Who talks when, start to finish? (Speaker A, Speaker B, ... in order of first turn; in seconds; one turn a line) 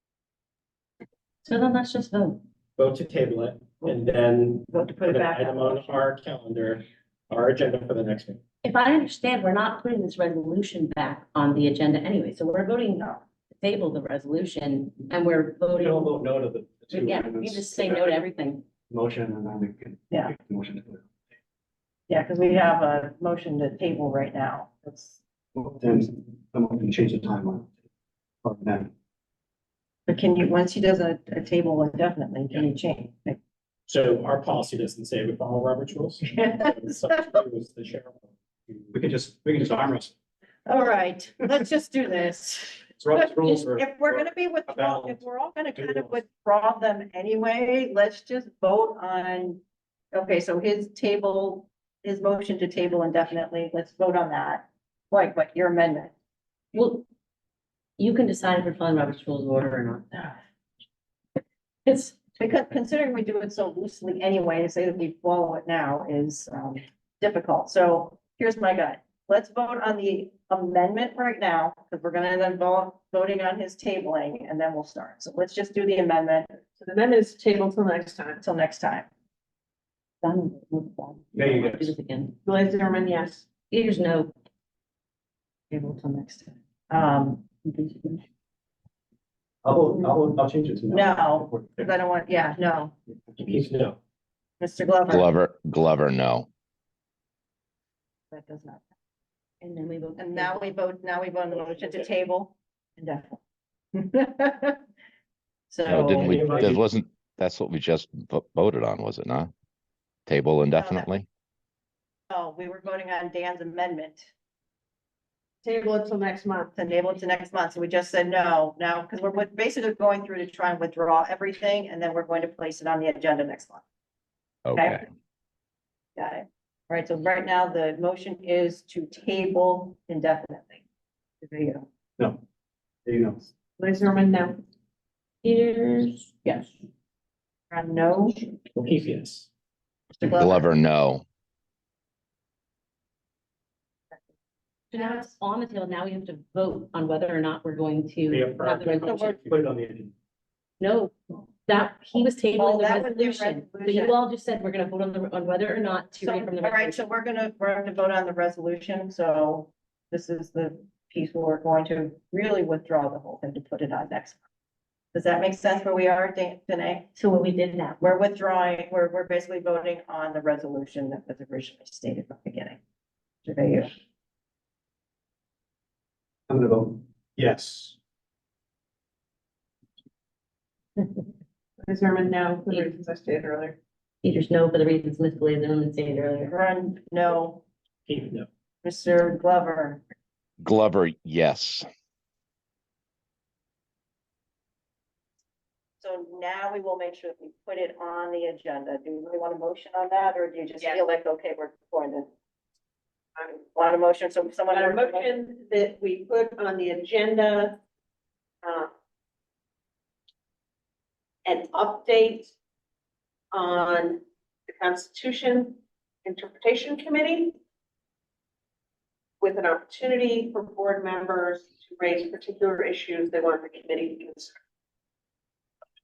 Speaker A: 1.4-2.4
Speaker B: 2.8-8.4
Speaker C: 4.7-5.9
Speaker A: 8.6-16.2
Speaker D: 15.8-18.2
Speaker A: 16.9-18.6
Speaker D: 18.9-21.0
Speaker C: 22.1-25.2
Speaker D: 25.5-27.7
Speaker D: 28.4-28.9
Speaker C: 30.1-33.4
Speaker B: 33.9-38.9
Speaker D: 38.9-40.1
Speaker C: 40.6-49.6
Speaker D: 43.0-45.2
Speaker D: 45.8-46.2
Speaker C: 50.1-56.1
Speaker A: 56.7-57.0
Speaker A: 58.0-60.4
Speaker A: 61.9-62.2
Speaker C: 62.4-76.6
Speaker E: 76.8-78.4
Speaker C: 78.4-79.1
Speaker A: 80.2-82.3
Speaker D: 81.3-81.9
Speaker E: 82.4-83.4
Speaker A: 83.7-84.3
Speaker A: 85.7-86.5
Speaker C: 86.5-87.4
Speaker A: 87.6-88.2
Speaker D: 89.6-91.8
Speaker C: 90.9-92.9
Speaker B: 93.4-94.0
Speaker C: 94.6-95.3
Speaker F: 95.1-96.5
Speaker C: 98.3-98.8
Speaker A: 99.6-100.7
Speaker C: 100.2-103.4
Speaker B: 101.7-102.1
Speaker C: 103.9-104.8
Speaker C: 105.7-106.4
Speaker F: 105.8-109.5
Speaker B: 106.2-106.8
Speaker F: 110.3-111.3
Speaker C: 110.7-111.1
Speaker C: 112.3-114.3
Speaker E: 115.6-116.7
Speaker C: 116.7-123.8
Speaker F: 124.7-125.0
Speaker C: 124.7-125.0
Speaker C: 126.2-130.8
Speaker C: 131.4-131.9
Speaker D: 133.1-133.5
Speaker E: 133.8-134.6
Speaker A: 135.4-136.3
Speaker C: 137.7-138.4
Speaker B: 138.7-139.5
Speaker C: 140.2-140.7
Speaker F: 140.3-141.2
Speaker A: 144.9-149.3
Speaker C: 144.9-145.2
Speaker B: 148.3-149.6
Speaker C: 149.1-149.4
Speaker D: 149.4-150.1
Speaker A: 150.8-157.0
Speaker C: 152.6-154.1
Speaker C: 156.2-164.4
Speaker C: 165.1-167.1
Speaker A: 167.1-168.0
Speaker C: 168.0-172.8
Speaker C: 173.4-173.9
Speaker D: 176.5-177.9
Speaker E: 181.8-183.8
Speaker A: 184.2-186.5
Speaker C: 186.5-187.6
Speaker B: 188.1-188.5
Speaker C: 188.8-190.0
Speaker F: 190.6-191.8
Speaker C: 196.0-202.3
Speaker C: 203.5-205.3
Speaker E: 204.7-207.8
Speaker E: 208.6-208.9
Speaker E: 211.4-212.5
Speaker E: 213.5-217.6
Speaker E: 219.4-224.5